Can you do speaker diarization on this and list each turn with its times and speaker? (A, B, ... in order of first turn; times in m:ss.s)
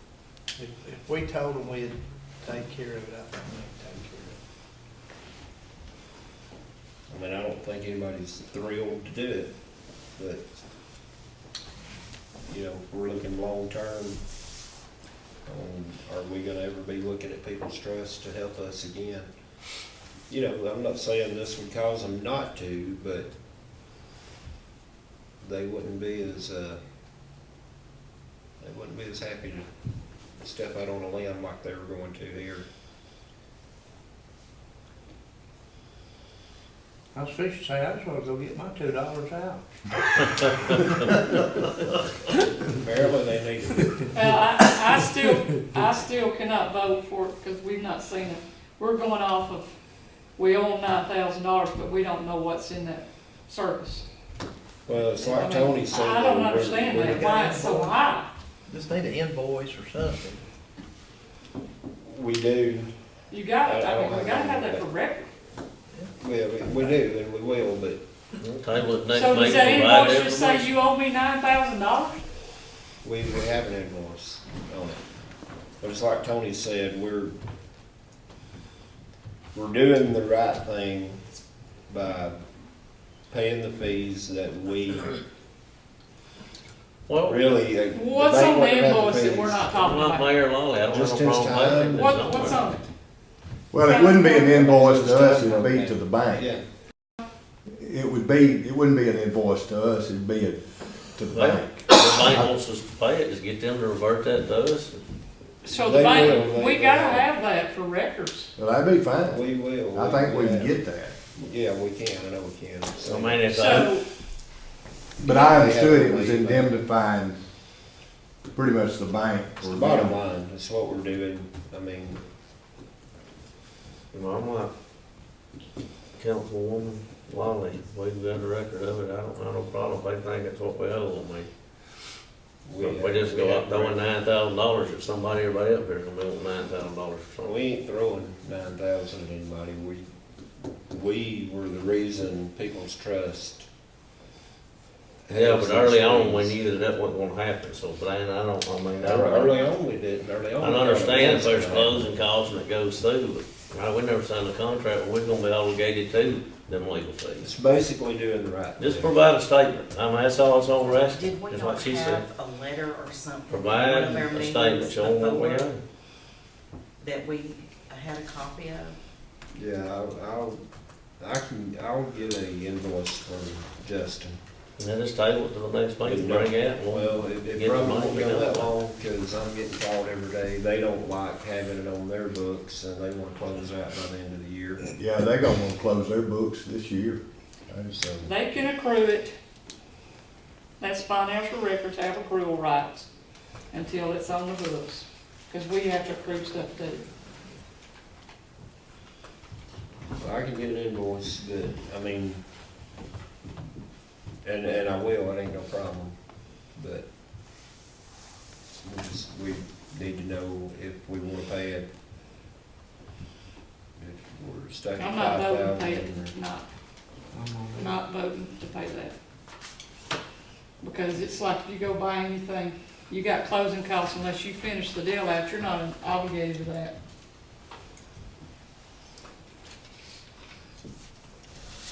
0:00.6-0:04.4 A
0:07.1-0:09.5 B
0:10.2-0:10.4 B
0:12.4-0:14.2 B
0:15.5-0:19.3 B
0:20.3-0:23.3 B
0:25.4-0:26.8 B
0:28.6-0:29.7 B
0:30.4-0:32.7 B
0:37.1-0:39.7 A
0:40.3-0:41.5 C
0:42.8-0:43.9 B
0:44.1-0:49.7 D
0:50.4-0:54.1 D
0:54.9-0:57.4 B
0:55.2-0:58.3 D
0:57.2-0:57.9 A
0:58.7-1:00.4 A
1:02.0-1:02.9 B
1:03.3-1:05.3 D
1:03.6-1:04.8 B
1:06.2-1:08.0 B
1:08.4-1:10.7 C
1:09.1-1:12.2 D
1:13.0-1:15.0 B
1:15.8-1:17.3 B
1:19.5-1:21.2 B
1:21.9-1:22.4 B
1:23.3-1:25.2 B
1:27.1-1:27.6 C
1:27.2-1:29.7 B
1:27.9-1:30.3 D
1:29.7-1:32.6 C
1:30.9-1:32.6 B
1:31.9-1:32.8 D
1:33.7-1:36.5 E
1:33.8-1:34.6 D
1:34.4-1:36.6 B
1:37.7-1:42.5 E
1:41.3-1:45.0 C
1:45.6-1:48.5 D
1:45.7-1:47.3 B
1:46.1-1:46.4 C
1:48.6-1:51.2 E
1:49.3-1:50.7 B
1:51.4-1:53.5 B
1:53.0-1:54.0 C
1:53.5-1:54.0 D
1:55.2-1:57.4 E
1:55.2-1:56.8 B
1:58.5-2:00.2 E
1:59.6-2:02.2 B
2:04.1-2:04.7 C
2:06.2-2:11.5 C
2:12.6-2:14.0 B
2:12.8-2:17.5 C
2:17.4-2:20.0 B
2:20.9-2:23.7 B
2:25.3-2:26.6 B
2:25.3-2:29.6 C
2:29.0-2:32.2 B
2:30.6-2:37.5 C
2:37.4-2:39.2 B
2:38.8-2:42.3 C
2:40.9-2:45.6 F
2:43.5-2:45.8 C
2:47.0-2:49.0 F
2:49.5-2:50.6 B
2:51.2-2:54.4 B
2:54.8-2:58.7 C
2:56.0-3:04.8 B
3:04.8-3:07.9 E
3:07.9-3:08.4 B
3:08.3-3:09.3 D
3:10.8-3:13.1 D
3:13.7-3:17.0 D
3:20.2-3:22.4 B
3:24.4-3:26.2 B
3:26.8-3:27.1 B
3:28.8-3:31.9 B
3:34.0-3:36.3 B
3:35.0-3:36.7 D
3:37.3-3:37.9 A
3:37.8-3:39.2 D
3:40.8-3:46.9 D